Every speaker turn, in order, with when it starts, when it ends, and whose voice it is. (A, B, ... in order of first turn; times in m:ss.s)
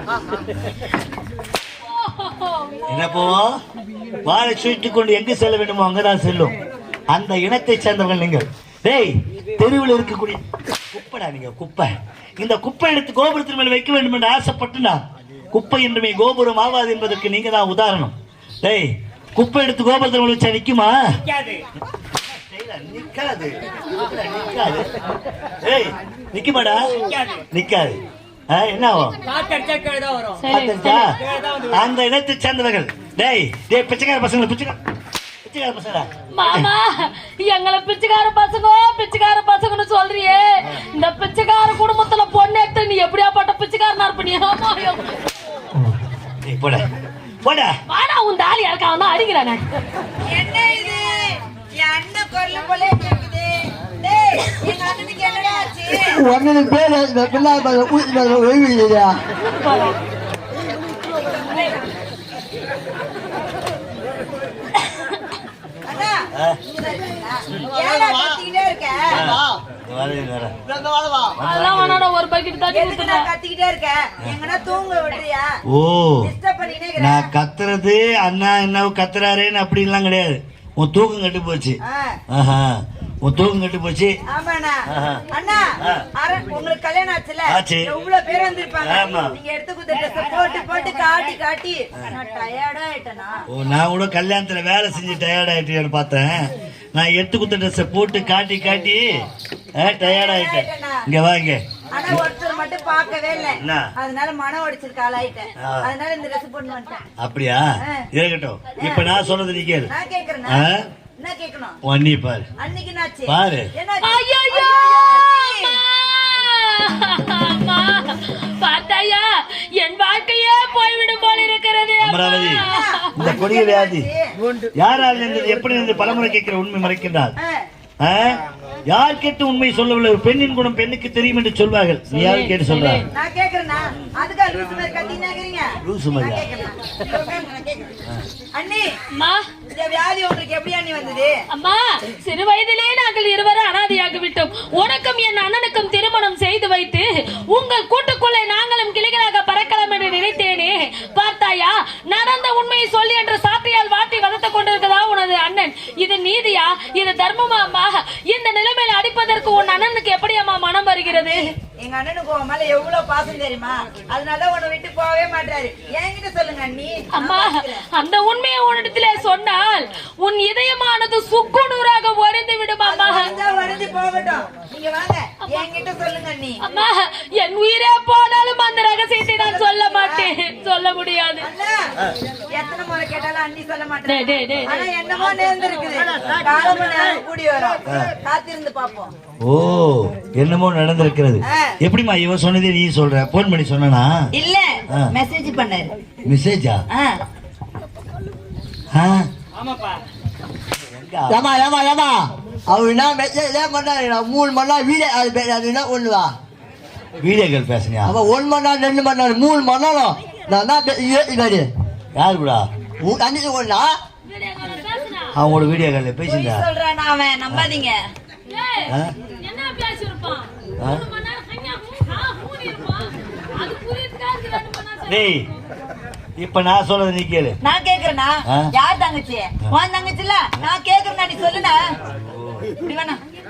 0:01.8-0:03.3 A
0:02.9-0:03.5 B
0:04.2-0:06.5 B
0:07.1-0:10.4 B
0:10.9-0:21.0 B
0:21.1-0:21.6 C
0:22.3-0:24.9 B
0:25.6-0:26.8 B
0:27.0-0:27.4 C
0:27.5-0:28.0 B
0:28.5-0:29.2 B
0:29.2-0:30.4 C
0:30.4-0:31.1 A
0:30.5-0:31.1 B
0:31.2-0:31.8 C
0:31.7-0:34.8 B
0:35.4-0:36.7 B
0:36.3-0:45.0 A
0:46.4-0:46.9 B
0:47.4-0:47.7 B
0:47.9-0:49.6 A
0:50.3-0:56.2 D
0:56.1-0:59.2 E
0:59.6-1:00.0 A
1:01.1-1:01.9 D
1:05.9-1:09.2 D
1:07.6-1:08.4 E
1:09.1-1:09.6 E
1:09.1-1:10.6 B
1:10.7-1:11.4 E
1:11.4-1:12.0 B
1:11.4-1:13.3 A
1:12.7-1:15.5 D
1:15.7-1:16.3 B
1:16.2-1:17.3 D
1:17.0-1:21.8 B
1:21.8-1:22.2 D
1:22.3-1:24.2 B
1:24.3-1:24.8 D
1:24.9-1:25.2 B
1:25.3-1:33.4 D
1:27.5-1:27.9 B
1:28.8-1:29.4 B
1:33.5-1:39.0 B
1:39.8-1:42.2 B
1:39.8-1:41.1 D
1:41.9-1:47.0 D
1:43.6-1:43.9 B
1:45.6-1:45.9 B
1:47.2-1:49.9 B
1:48.8-1:49.2 D
1:49.9-1:50.7 D
1:50.5-1:50.8 B
1:51.2-1:51.8 D
1:51.8-1:52.5 B
1:52.6-1:55.8 D
1:53.3-1:53.7 B
1:54.0-2:03.1 A
2:02.0-2:02.6 B
2:02.5-2:04.2 D
2:03.2-2:04.1 B
2:04.8-2:07.3 B
2:07.4-2:07.6 D
2:08.0-2:13.0 B
2:12.1-2:13.1 A
2:13.1-2:17.9 D
2:15.8-2:16.5 B
2:18.6-2:18.9 D
2:19.2-2:19.5 A
2:19.7-2:21.3 D
2:21.5-2:41.5 A
2:41.2-2:47.8 D
2:47.1-2:53.3 A
2:52.8-2:56.6 D
2:56.6-3:01.5 A
2:59.3-3:00.3 D
3:01.4-3:01.8 D
3:02.5-3:09.1 D
3:04.1-3:04.9 A
3:09.4-3:14.1 B
3:11.5-3:11.8 D
3:14.3-3:15.9 D
3:16.3-3:16.8 B
3:16.9-3:17.2 D
3:18.9-3:19.3 B
3:19.6-3:20.0 C
3:20.9-3:21.4 B
3:21.3-3:26.3 E
3:27.2-3:28.1 B
3:28.1-3:31.7 E
3:32.2-3:32.7 B
3:33.0-3:33.9 E
3:34.2-3:35.4 A
3:35.3-3:36.7 B
3:36.3-3:38.0 D
3:38.5-3:45.4 A
3:45.1-3:45.4 B
3:46.4-3:47.6 B
3:47.6-3:51.8 D
3:52.2-3:52.7 B
3:52.8-3:53.2 D